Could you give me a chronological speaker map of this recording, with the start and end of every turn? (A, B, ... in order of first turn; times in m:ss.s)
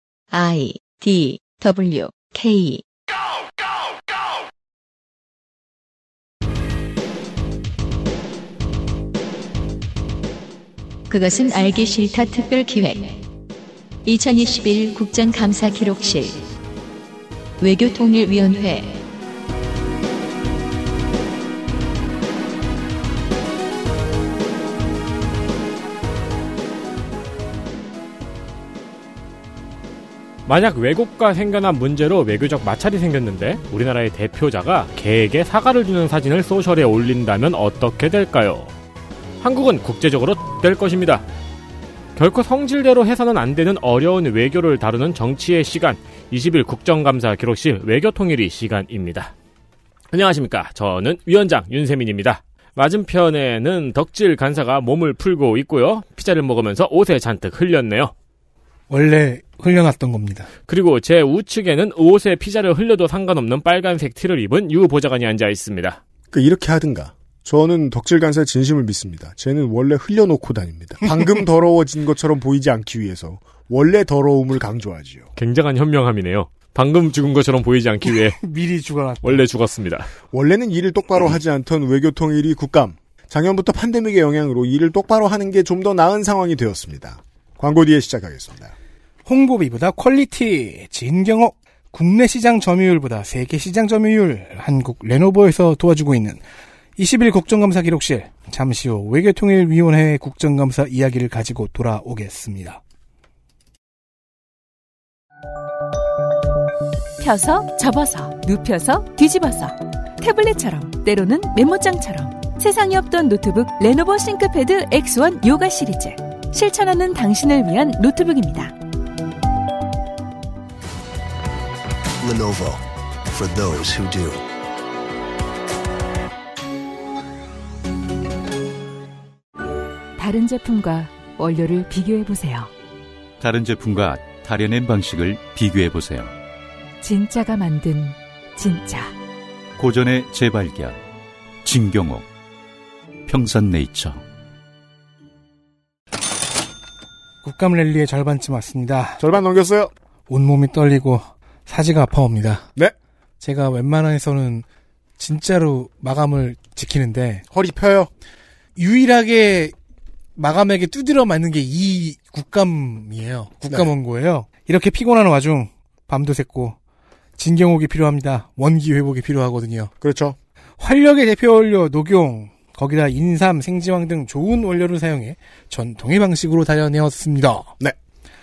0:00.3-0:02.8 A
0:11.1-0:13.2 A
0:14.0-0:16.4 A
0:17.6-0:19.0 A
0:30.5-0:38.7 B
0:39.4-0:41.2 B
0:42.2-0:49.3 B
0:50.1-0:58.1 B
0:58.9-1:00.5 C
1:00.7-1:06.0 B
1:06.3-1:15.2 D
1:15.4-1:18.4 B
1:18.1-1:19.4 C
1:19.2-1:20.1 B
1:20.3-1:28.7 D
1:29.2-1:36.4 C
1:37.0-1:42.8 C
1:47.2-1:58.7 E
2:02.2-2:04.4 F
2:10.2-2:12.7 E
2:13.4-2:16.3 G
2:17.0-2:19.1 E
2:19.8-2:21.0 G
2:21.6-2:22.3 G
2:23.2-2:24.2 G
2:27.4-2:29.2 C
2:29.2-2:29.9 D
2:30.3-2:32.7 C
2:33.4-2:34.6 C
2:35.2-2:37.4 C
2:37.5-2:38.1 D
2:38.8-2:39.7 C
2:40.4-2:46.8 C
2:43.6-2:43.9 D
2:47.4-2:49.9 C
2:50.0-2:50.4 D
2:50.8-2:57.7 C